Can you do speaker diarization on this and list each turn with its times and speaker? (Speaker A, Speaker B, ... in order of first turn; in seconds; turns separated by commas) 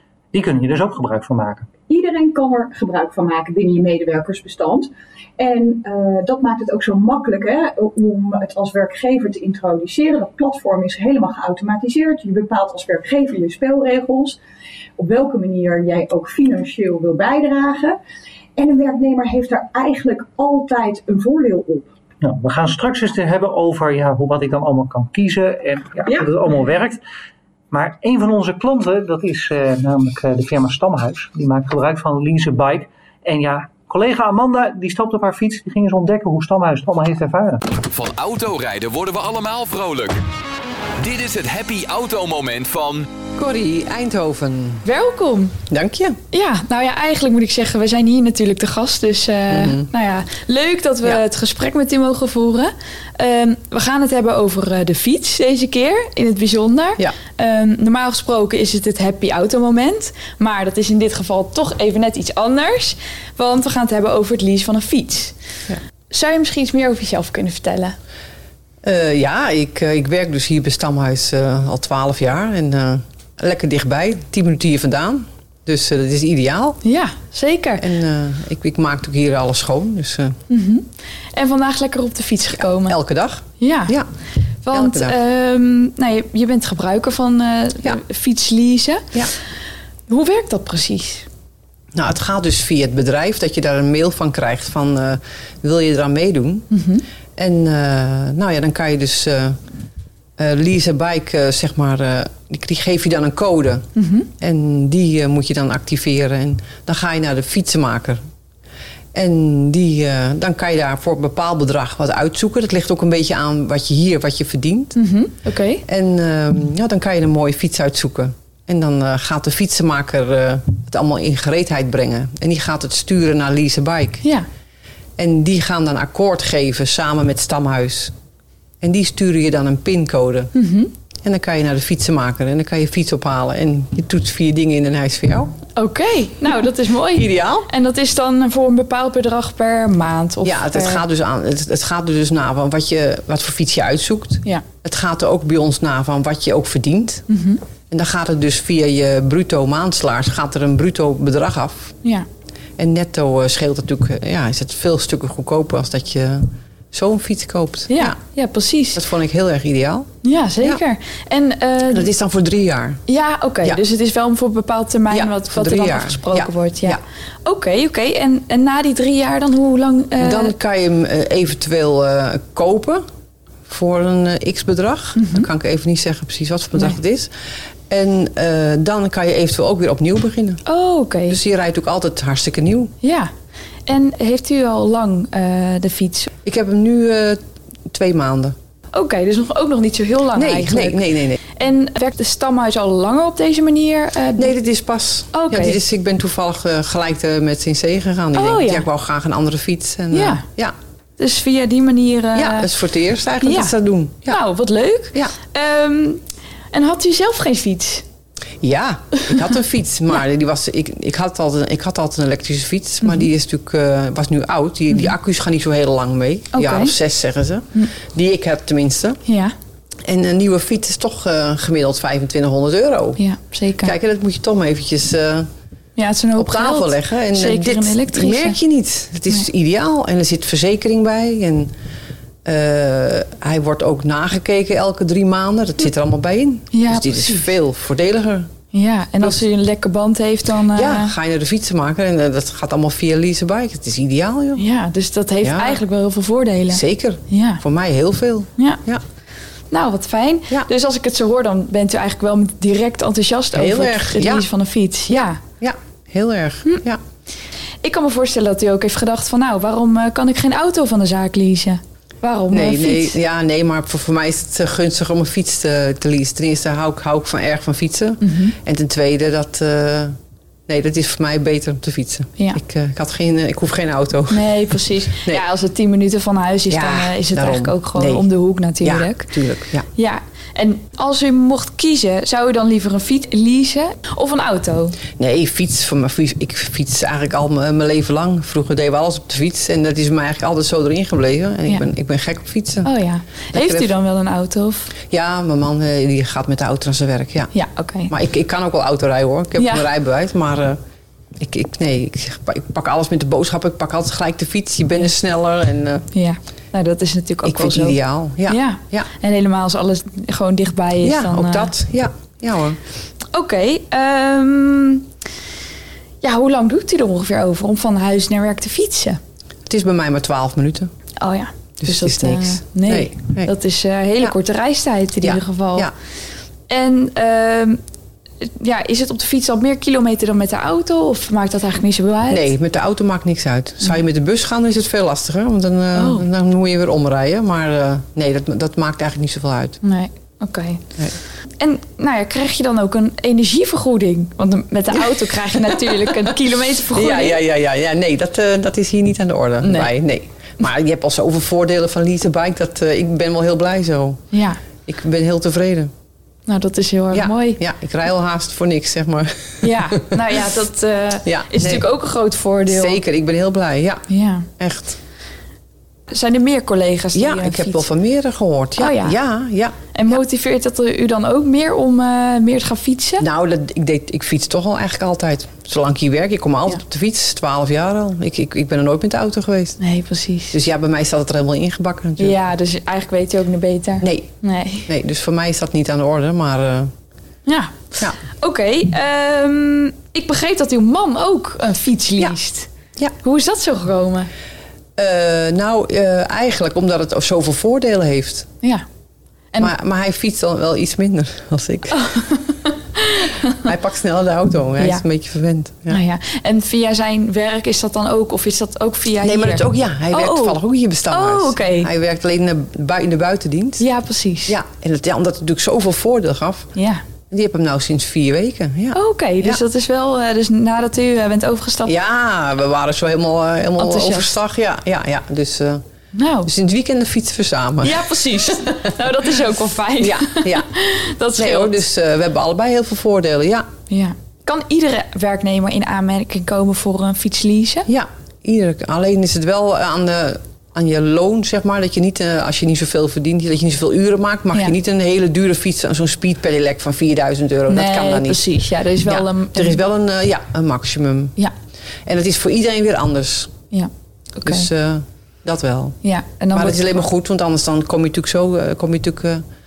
Speaker A: 0.3-1.7, Speaker B: 1.9-14.4, Speaker B: 15.0-18.0, Speaker B: 18.6-21.9, Speaker A: 22.2-27.0, Speaker B: 26.0-26.4, Speaker A: 27.7-37.6, Speaker C: 37.8-40.2, Speaker C: 41.0-43.1, Speaker D: 43.3-44.8, Speaker E: 44.8-45.6, Speaker D: 45.7-46.2, Speaker E: 46.3-65.3, Speaker D: 49.5-49.9, Speaker E: 66.1-68.0, Speaker D: 68.8-76.8, Speaker E: 76.8-77.8, Speaker D: 77.8-80.4, Speaker E: 80.5-83.0, Speaker D: 82.5-84.1, Speaker E: 83.6-84.0, Speaker E: 84.6-89.1, Speaker D: 84.7-85.2, Speaker E: 90.1-91.3, Speaker D: 91.9-96.7, Speaker E: 96.7-97.0, Speaker D: 97.3-99.6, Speaker D: 100.4-108.2, Speaker E: 104.0-104.3, Speaker D: 109.1-115.0, Speaker E: 115.0-115.8, Speaker D: 115.8-124.2, Speaker D: 125.2-128.1, Speaker D: 128.8-130.5, Speaker E: 130.5-130.9, Speaker D: 131.2-135.5, Speaker E: 135.8-141.0, Speaker D: 137.1-137.7, Speaker D: 140.4-147.2, Speaker E: 147.3-147.6, Speaker D: 147.9-151.9, Speaker D: 152.8-158.2, Speaker E: 157.9-159.0, Speaker D: 158.9-160.8, Speaker E: 160.2-162.1, Speaker D: 161.9-163.0, Speaker E: 163.1-170.5, Speaker D: 165.1-167.0, Speaker D: 170.2-173.0, Speaker D: 173.7-180.6, Speaker E: 175.2-175.5, Speaker E: 180.7-181.4, Speaker D: 181.3-182.9, Speaker E: 183.0-183.3, Speaker E: 183.8-186.3, Speaker D: 186.4-188.6, Speaker E: 188.9-194.6, Speaker D: 190.3-191.4, Speaker D: 194.3-200.8, Speaker E: 195.3-195.8, Speaker E: 198.3-198.8, Speaker E: 200.1-200.4, Speaker E: 201.2-202.7, Speaker D: 202.3-204.4, Speaker E: 203.4-203.7, Speaker E: 204.3-208.1, Speaker D: 208.6-219.2, Speaker E: 216.5-216.9, Speaker E: 219.2-219.5, Speaker D: 220.0-223.2, Speaker E: 223.2-223.9, Speaker D: 223.8-225.5, Speaker E: 225.9-228.6, Speaker D: 226.4-231.7, Speaker D: 232.4-238.5, Speaker E: 236.7-237.4, Speaker E: 238.7-241.1, Speaker D: 240.7-244.6, Speaker E: 244.6-247.6, Speaker D: 245.4-245.8, Speaker D: 246.7-249.0, Speaker E: 249.7-255.4, Speaker D: 253.5-254.5, Speaker D: 255.1-257.0, Speaker E: 257.8-263.2, Speaker D: 262.5-270.1, Speaker E: 268.2-268.6, Speaker D: 270.7-275.4, Speaker E: 274.3-285.0, Speaker D: 276.7-278.3, Speaker D: 278.8-279.9, Speaker D: 285.2-292.9, Speaker E: 292.8-294.9, Speaker D: 293.5-293.9, Speaker D: 295.1-297.5, Speaker E: 297.5-298.1, Speaker D: 298.1-300.8, Speaker E: 299.6-299.9, Speaker D: 301.4-306.1, Speaker E: 306.1-311.7, Speaker D: 307.4-309.1, Speaker D: 311.0-312.8, Speaker E: 313.3-315.1, Speaker E: 316.2-319.2, Speaker D: 319.7-320.9, Speaker E: 321.2-325.9, Speaker D: 321.8-323.5, Speaker D: 325.2-325.9, Speaker E: 326.7-327.8, Speaker E: 328.4-332.5, Speaker D: 332.3-339.8, Speaker E: 335.9-336.2, Speaker E: 339.8-340.8, Speaker E: 341.6-347.4, Speaker D: 345.0-346.3, Speaker D: 346.9-354.3, Speaker E: 349.6-349.9, Speaker E: 354.3-354.6, Speaker D: 354.8-355.9, Speaker E: 356.5-357.6, Speaker D: 357.1-360.3, Speaker E: 359.6-363.0, Speaker D: 361.2-361.8, Speaker D: 362.7-365.0, Speaker E: 364.1-364.5, Speaker E: 366.1-367.9, Speaker D: 367.1-370.2, Speaker E: 368.8-369.2, Speaker E: 369.9-373.2, Speaker D: 373.2-379.8, Speaker E: 379.8-380.6, Speaker D: 380.5-382.4, Speaker E: 382.2-384.9, Speaker D: 384.0-384.3, Speaker D: 384.9-386.9, Speaker E: 387.4-392.7, Speaker E: 393.2-394.3, Speaker D: 395.0-398.5, Speaker D: 399.6-402.0, Speaker E: 401.9-403.6, Speaker D: 403.6-406.0, Speaker E: 404.8-405.0, Speaker E: 405.9-411.9, Speaker D: 409.2-413.8, Speaker E: 413.8-414.6, Speaker D: 414.5-416.7, Speaker E: 416.7-417.0, Speaker D: 417.3-419.6, Speaker E: 418.9-421.9, Speaker D: 421.8-425.8, Speaker E: 423.8-424.4, Speaker E: 426.1-426.5, Speaker D: 426.4-428.7, Speaker E: 427.8-431.8, Speaker D: 430.0-430.7, Speaker D: 431.4-433.7, Speaker E: 433.9-437.9, Speaker D: 437.9-451.3, Speaker E: 447.7-449.8, Speaker D: 452.0-453.5, Speaker E: 453.7-454.7, Speaker D: 454.4-456.0, Speaker E: 456.0-457.0, Speaker D: 456.5-459.4